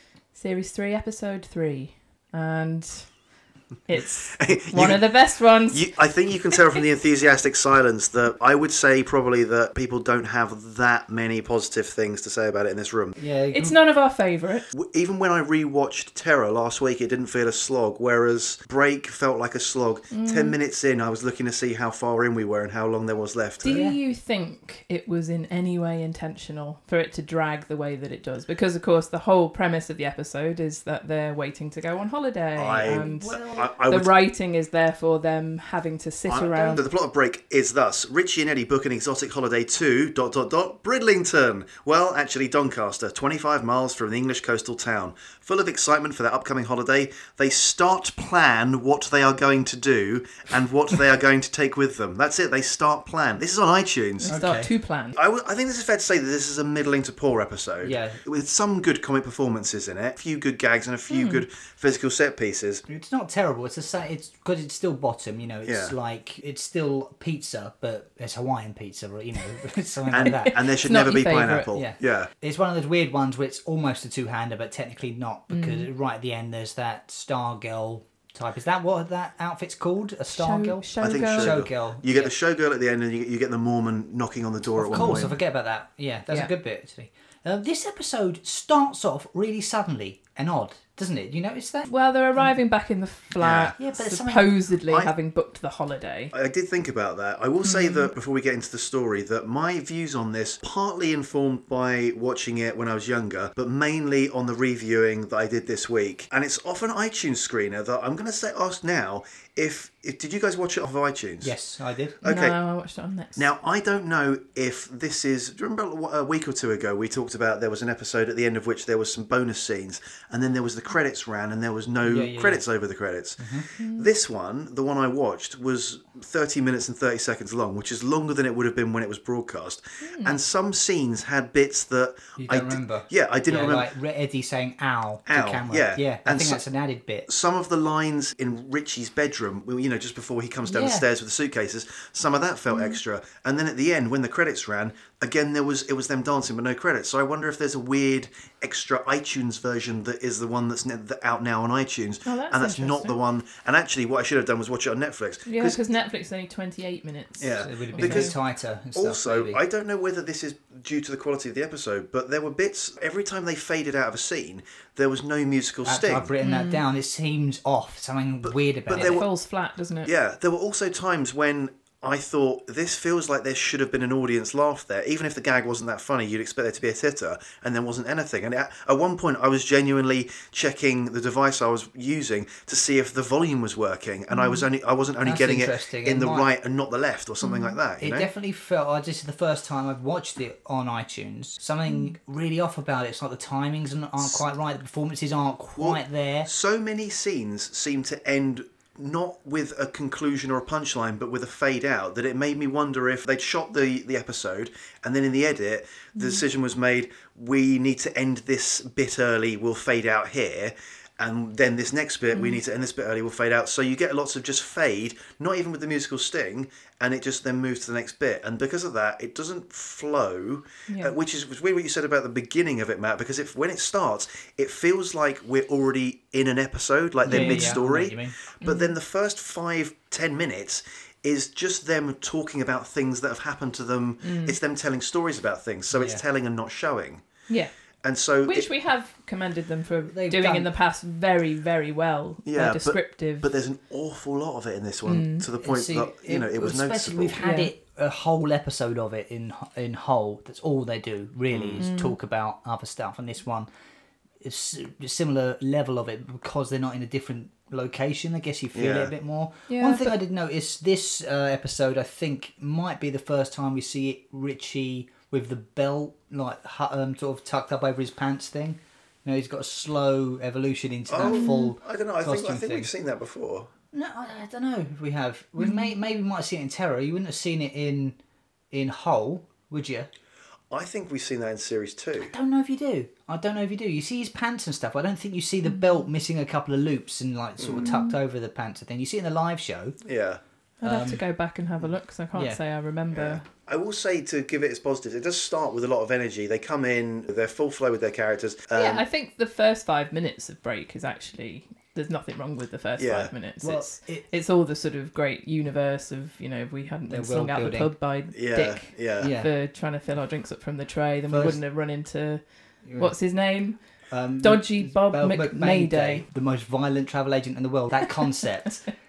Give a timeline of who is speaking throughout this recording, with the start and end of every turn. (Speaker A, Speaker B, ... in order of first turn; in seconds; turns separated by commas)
Speaker A: 0.3-3.1, Speaker A: 3.9-6.0, Speaker B: 3.9-5.1, Speaker B: 5.7-13.1, Speaker C: 13.2-13.8, Speaker A: 13.5-14.7, Speaker B: 14.7-23.8, Speaker A: 20.1-20.6, Speaker A: 23.6-36.9, Speaker C: 23.7-24.0, Speaker B: 32.6-34.1, Speaker C: 32.9-33.7, Speaker B: 36.3-54.4, Speaker A: 54.2-55.2, Speaker C: 54.3-54.7, Speaker B: 55.1-62.8, Speaker C: 57.8-58.2, Speaker A: 61.1-61.4, Speaker C: 62.9-70.6, Speaker B: 65.7-65.9, Speaker B: 70.1-72.3, Speaker A: 70.2-71.8, Speaker C: 71.7-82.3, Speaker A: 75.5-75.9, Speaker A: 80.3-81.6, Speaker B: 81.0-85.4, Speaker C: 84.8-91.9, Speaker A: 84.9-85.3, Speaker A: 91.9-96.3, Speaker B: 93.4-93.8, Speaker C: 93.8-94.5, Speaker B: 94.9-95.1, Speaker B: 96.3-111.5, Speaker A: 97.6-98.1, Speaker C: 111.4-112.2, Speaker B: 112.2-112.5, Speaker A: 112.2-113.4, Speaker B: 113.4-133.9, Speaker C: 122.0-122.6, Speaker C: 123.4-123.7, Speaker A: 123.8-124.1, Speaker A: 130.0-130.4, Speaker C: 132.4-137.3, Speaker B: 135.3-136.6, Speaker B: 137.3-155.8, Speaker C: 140.7-141.1, Speaker A: 142.7-143.0, Speaker A: 152.3-153.2, Speaker A: 155.5-158.3, Speaker B: 157.4-158.4, Speaker C: 157.5-159.6, Speaker B: 158.9-166.3, Speaker C: 165.8-169.2, Speaker A: 166.4-166.8, Speaker B: 168.4-169.3, Speaker A: 168.9-170.1, Speaker B: 170.1-188.3, Speaker A: 184.3-184.7, Speaker C: 185.2-186.5, Speaker A: 187.4-187.8, Speaker C: 188.0-196.5, Speaker B: 195.8-237.2, Speaker A: 206.2-206.4, Speaker A: 212.3-212.6, Speaker A: 220.9-221.1, Speaker C: 227.3-228.4, Speaker A: 227.3-227.8, Speaker A: 228.6-228.9, Speaker A: 234.2-234.6, Speaker C: 235.9-236.2, Speaker B: 238.0-238.7, Speaker A: 238.4-243.5, Speaker C: 240.1-240.7, Speaker B: 242.5-247.4, Speaker A: 245.1-245.5, Speaker C: 245.6-253.7, Speaker A: 247.4-247.7, Speaker B: 251.5-251.8, Speaker A: 251.8-252.2, Speaker C: 254.4-272.9, Speaker B: 258.7-259.1, Speaker A: 259.7-260.2, Speaker B: 271.1-273.7, Speaker A: 271.2-271.7, Speaker C: 273.9-278.2, Speaker A: 275.6-275.9, Speaker C: 278.7-280.1, Speaker B: 280.7-282.3, Speaker C: 282.2-290.0, Speaker B: 287.6-287.9, Speaker A: 287.8-288.2, Speaker B: 290.0-290.4, Speaker A: 290.8-293.5, Speaker C: 290.8-291.2, Speaker C: 292.3-292.6, Speaker B: 293.1-299.1, Speaker A: 298.7-312.4, Speaker B: 303.0-303.3, Speaker C: 303.6-304.3, Speaker C: 307.1-307.9, Speaker B: 308.3-309.4, Speaker C: 309.2-309.5, Speaker C: 311.3-311.6, Speaker C: 312.9-313.1, Speaker A: 313.0-313.8, Speaker C: 314.1-318.8, Speaker A: 314.4-316.2, Speaker A: 318.0-318.7